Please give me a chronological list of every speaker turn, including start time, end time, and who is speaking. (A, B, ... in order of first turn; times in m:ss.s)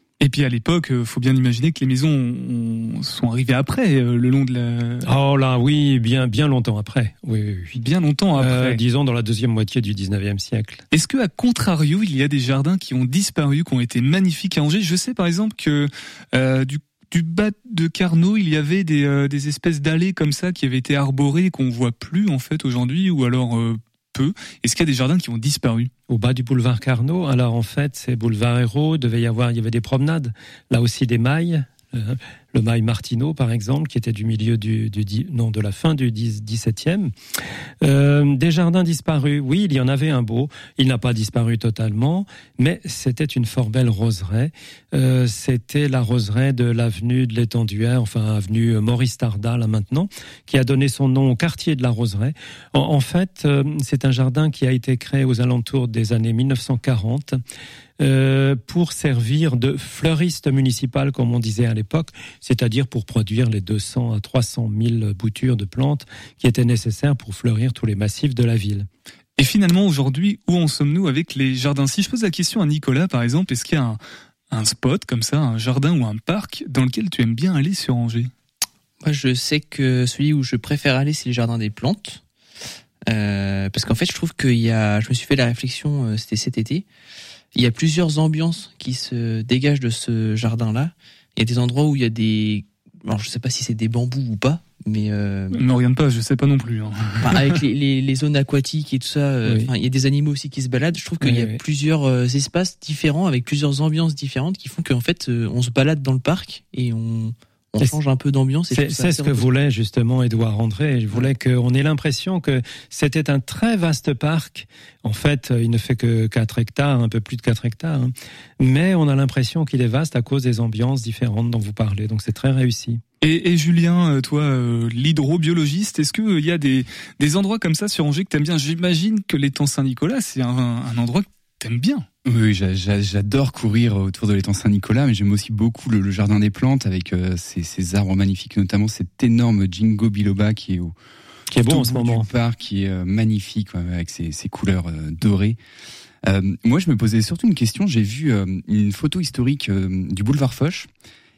0:00.2-0:05.1 A
0:05.0-0:07.8 B
0:07.8-0:08.8 A
0:08.4-0:10.8 B
0:10.9-0:25.9 A
0:26.1-0:37.1 B
0:37.8-0:57.4 B
0:58.0-1:08.9 B
1:09.4-1:14.0 A
1:14.5-1:18.3 A
1:19.0-1:22.2 C
1:23.1-1:26.9 C
1:27.5-1:35.6 C
1:35.5-1:37.6 A
1:37.2-1:49.4 C
1:41.2-1:41.6 B
1:48.7-2:03.0 B
2:03.2-2:12.0 A
2:12.3-2:20.9 D
2:21.5-2:22.3 B
2:21.6-2:25.6 D
2:26.2-2:30.9 D